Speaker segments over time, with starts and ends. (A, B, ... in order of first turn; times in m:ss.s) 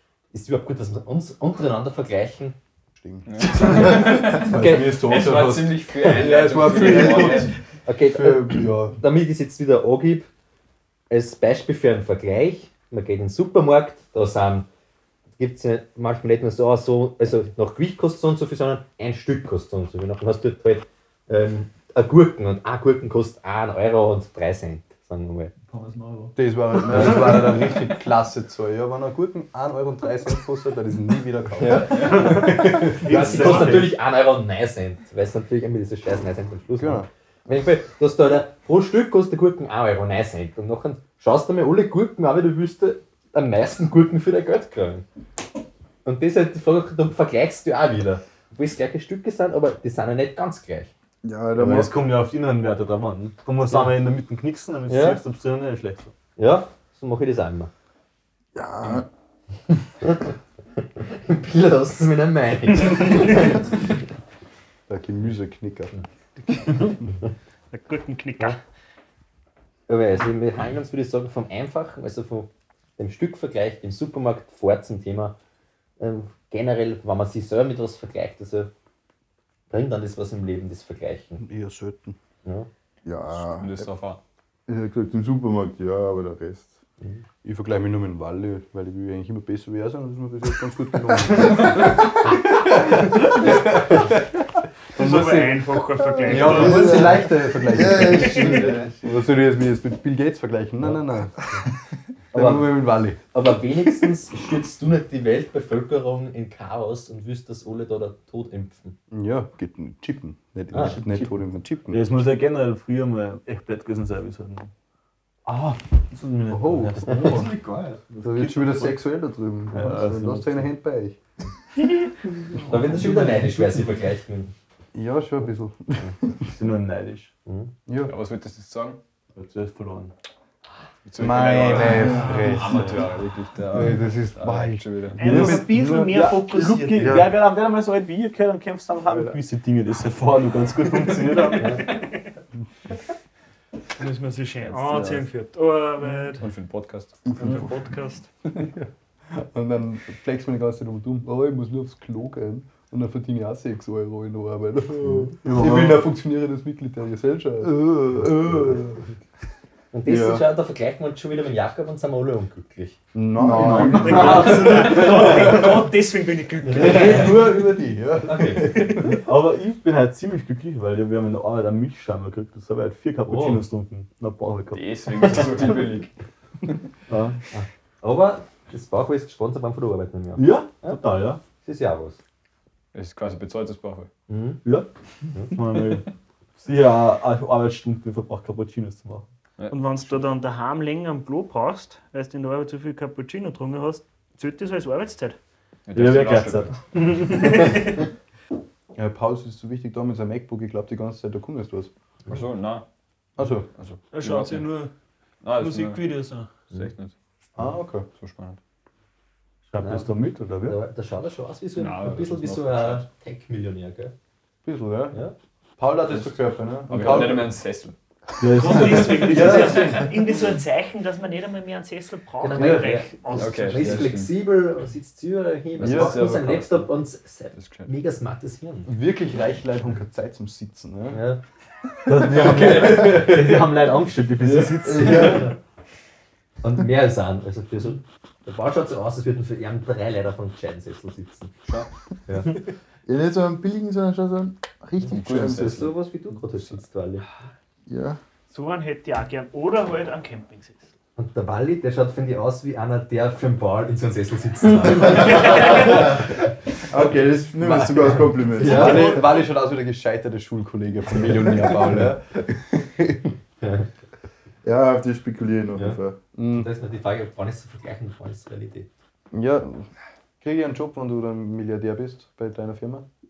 0:00.3-0:02.6 A
0:03.0-0:09.0 B
0:03.2-0:07.5 C
0:03.6-0:05.0 A
0:07.8-0:10.3 A
0:11.1-0:14.7 A
0:15.4-0:25.5 A
0:25.6-0:26.3 D
0:26.4-0:33.6 B
0:31.6-0:45.0 A
0:32.0-0:33.9 D
0:33.0-0:33.8 E
0:36.8-0:37.1 B
0:46.0-0:50.9 A
0:51.2-0:52.1 F
0:51.6-0:56.1 D
0:54.9-0:55.2 A
0:56.4-0:57.7 A
0:58.5-0:59.1 F
1:01.0-1:03.7 A
1:04.9-1:05.9 B
1:06.6-1:06.8 E
1:07.7-1:08.6 E
1:09.9-1:15.4 A
1:16.0-1:18.7 A
1:19.7-1:21.4 A
1:21.4-1:22.2 B
1:23.0-1:23.8 F
1:23.3-1:24.2 C
1:24.7-1:26.7 F
1:27.4-1:34.2 B
1:34.9-1:37.1 E
1:34.9-1:41.4 B
1:36.2-1:38.9 F
1:42.3-1:43.2 B
1:42.3-1:49.0 A
1:49.1-1:52.1 B
1:50.7-1:51.3 A
1:51.9-1:54.7 D
1:55.5-1:59.0 D
1:56.5-1:57.5 B
1:57.1-1:57.4 A
1:58.2-2:01.2 B
1:59.7-2:00.7 D
2:02.6-2:04.5 A
2:02.9-2:03.8 D
2:04.9-2:06.3 B
2:06.4-2:07.3 D
2:07.4-2:07.7 A
2:07.9-2:08.1 B
2:08.0-2:09.0 C
2:09.3-2:10.1 D
2:11.0-2:15.4 C
2:11.2-2:13.0 B
2:12.2-2:12.5 E
2:13.7-2:16.3 B
2:15.2-2:17.2 E
2:15.2-2:21.8 D
2:17.0-2:17.3 F
2:19.1-2:19.4 F
2:21.4-2:22.2 E
2:24.0-2:26.4 E
2:24.7-2:25.0 C
2:26.4-2:27.2 C
2:27.3-2:28.3 E
2:28.5-2:39.0 B
2:35.4-2:36.1 D
2:39.9-2:43.0 A
2:40.0-2:40.4 B
2:43.1-2:45.7 B
2:43.4-2:44.7 F
2:43.4-2:45.2 D
2:43.9-2:47.4 E
2:46.6-2:47.5 A
2:46.7-2:49.2 B
2:48.2-2:48.9 A
2:49.1-2:55.5 D
2:53.3-2:53.6 A
2:54.7-2:56.1 C
2:57.1-2:57.4 D
2:57.5-3:01.0 A
3:00.4-3:01.4 D
3:01.6-3:02.2 A
3:02.9-3:04.1 C
3:04.3-3:04.6 A
3:04.6-3:04.9 D
3:05.4-3:06.1 D
3:06.6-3:09.2 D
3:09.6-3:10.1 C
3:09.7-3:15.4 E
3:15.9-3:16.8 C
3:15.9-3:17.8 D
3:18.9-3:21.9 B
3:22.3-3:22.8 C
3:23.4-3:23.7 B
3:23.7-3:24.7 C
3:24.1-3:24.9 E
3:25.4-3:26.1 C
3:25.5-3:26.5 E
3:26.7-3:27.1 C
3:27.6-3:28.1 B
3:28.1-3:28.6 C
3:29.7-3:30.8 D
3:29.8-3:34.1 A
3:31.8-3:33.0 C
3:34.6-3:35.2 B
3:35.8-3:37.5 B
3:36.9-3:37.9 C
3:38.4-3:39.8 D
3:38.5-3:44.1 E
3:39.2-3:40.1 B
3:42.4-3:48.9 A
3:42.6-3:42.8 B
3:43.3-3:44.3 C
3:45.8-3:46.9 C
3:45.8-3:46.2 B
3:47.5-3:47.9 C
3:48.8-3:51.2 B
3:51.1-3:51.4 A
3:52.0-3:55.5 D
3:52.2-3:53.6 A
3:52.3-3:53.2 B
3:54.8-3:55.4 F
3:54.9-3:55.5 A
3:56.6-4:01.5 A
4:02.3-4:02.6 A
4:03.0-4:05.9 F
4:05.1-4:05.9 C
4:05.3-4:07.3 A
4:06.5-4:06.8 C
4:07.9-4:08.2 F
4:08.5-4:10.9 E
4:11.2-4:16.4 A
4:16.9-4:19.2 F
4:17.6-4:23.3 B
4:18.5-4:19.2 A
4:18.8-4:19.2 E
4:23.6-4:23.9 A
4:24.6-4:26.2 F
4:25.8-4:28.9 A
4:26.3-4:26.7 B
4:29.3-4:29.9 B
4:30.4-4:33.1 B